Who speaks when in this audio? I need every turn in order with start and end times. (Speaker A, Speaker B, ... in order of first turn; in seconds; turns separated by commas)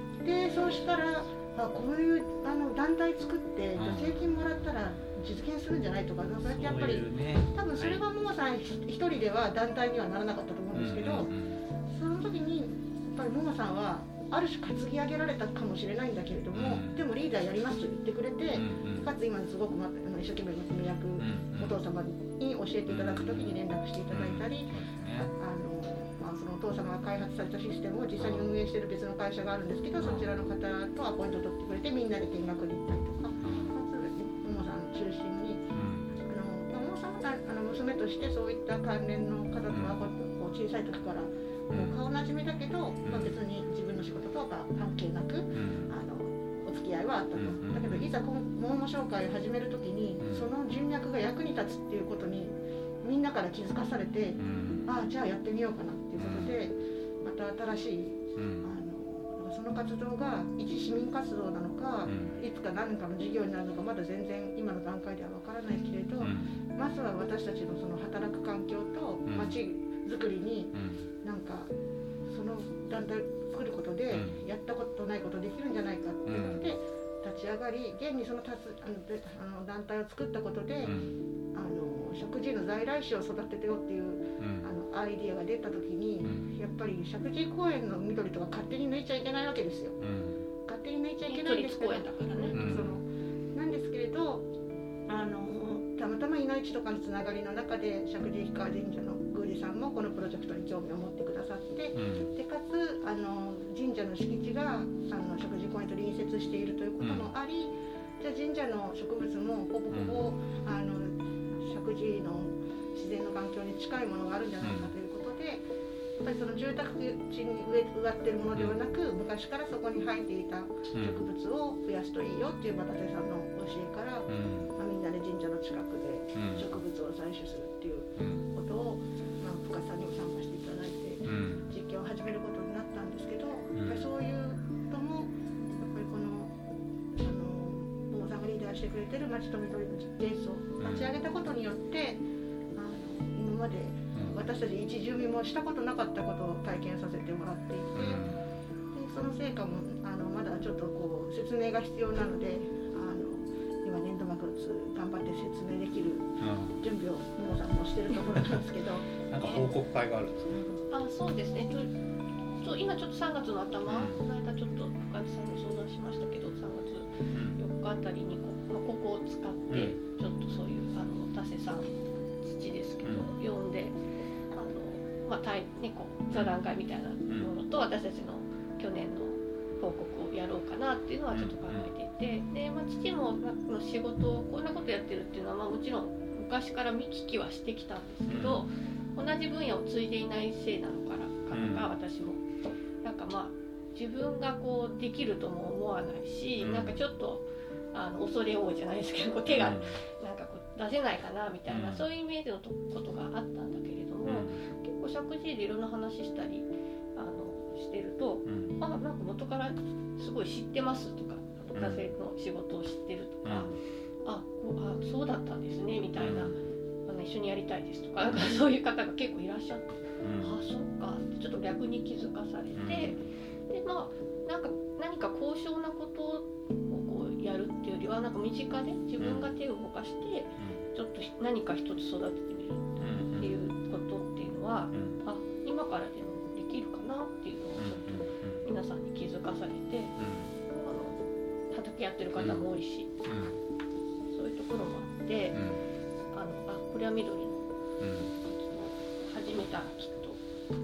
Speaker A: 0.2-11.3, Speaker B: 3.8-4.3, Speaker B: 6.5-8.0, Speaker B: 10.7-11.6, Speaker A: 11.9-24.7, Speaker B: 16.5-17.0, Speaker B: 18.5-19.1, Speaker B: 21.2-21.8, Speaker B: 22.9-23.6, Speaker B: 24.1-25.3, Speaker A: 25.4-35.7, Speaker B: 28.2-28.6, Speaker B: 30.0-30.3, Speaker B: 33.4-33.8, Speaker B: 35.7-36.2, Speaker A: 36.2-71.7, Speaker B: 39.7-40.0, Speaker B: 41.7-42.0, Speaker B: 43.0-43.4, Speaker B: 45.5-45.9, Speaker B: 47.4-48.1, Speaker B: 50.2-50.5, Speaker B: 54.4-54.9, Speaker B: 56.2-56.6, Speaker B: 58.4-58.7, Speaker B: 62.1-62.4, Speaker B: 66.2-66.6, Speaker B: 69.3-69.6, Speaker B: 70.7-71.1, Speaker A: 72.3-81.0, Speaker B: 74.1-74.4, Speaker B: 76.3-76.8, Speaker B: 80.8-81.2, Speaker A: 81.5-90.0, Speaker B: 84.4-84.7, Speaker B: 86.2-86.5, Speaker B: 90.0-90.5, Speaker A: 90.7-94.5, Speaker C: 91.3-92.8, Speaker B: 92.5-93.0, Speaker A: 95.1-115.7, Speaker B: 101.9-102.3, Speaker B: 107.0-107.3, Speaker B: 109.9-110.3, Speaker B: 114.6-114.9, Speaker A: 116.2-136.5, Speaker B: 120.9-121.2, Speaker B: 124.3-124.8, Speaker B: 126.3-126.7, Speaker B: 128.2-128.5, Speaker B: 131.2-131.7, Speaker B: 133.8-134.1, Speaker A: 137.1-142.2, Speaker B: 140.8-141.1, Speaker A: 142.8-148.2, Speaker B: 144.1-144.4, Speaker B: 147.9-148.5, Speaker A: 148.9-159.1, Speaker B: 156.4-156.8, Speaker B: 159.3-160.6, Speaker C: 160.9-161.9, Speaker C: 162.6-174.0, Speaker B: 163.9-164.2, Speaker B: 167.3-167.6, Speaker B: 169.7-170.0, Speaker B: 173.0-173.3, Speaker C: 174.5-192.4, Speaker B: 181.3-181.9, Speaker B: 188.3-188.7, Speaker B: 191.5-191.9, Speaker C: 193.0-216.5, Speaker B: 196.6-197.0, Speaker B: 199.5-200.0, Speaker B: 201.7-202.1, Speaker B: 204.2-204.6, Speaker B: 208.5-208.7, Speaker B: 211.7-212.0, Speaker B: 213.4-213.7, Speaker B: 216.2-216.6, Speaker C: 217.1-240.2, Speaker B: 220.2-220.5, Speaker B: 222.8-223.2, Speaker B: 229.2-229.5, Speaker B: 233.0-233.5, Speaker B: 234.9-235.2, Speaker B: 237.8-238.7, Speaker B: 240.2-240.5, Speaker C: 240.7-241.2, Speaker C: 241.7-243.1, Speaker B: 243.2-243.6, Speaker C: 244.3-245.6, Speaker B: 245.5-245.8, Speaker C: 246.3-247.7, Speaker B: 248.0-248.3, Speaker C: 248.5-250.4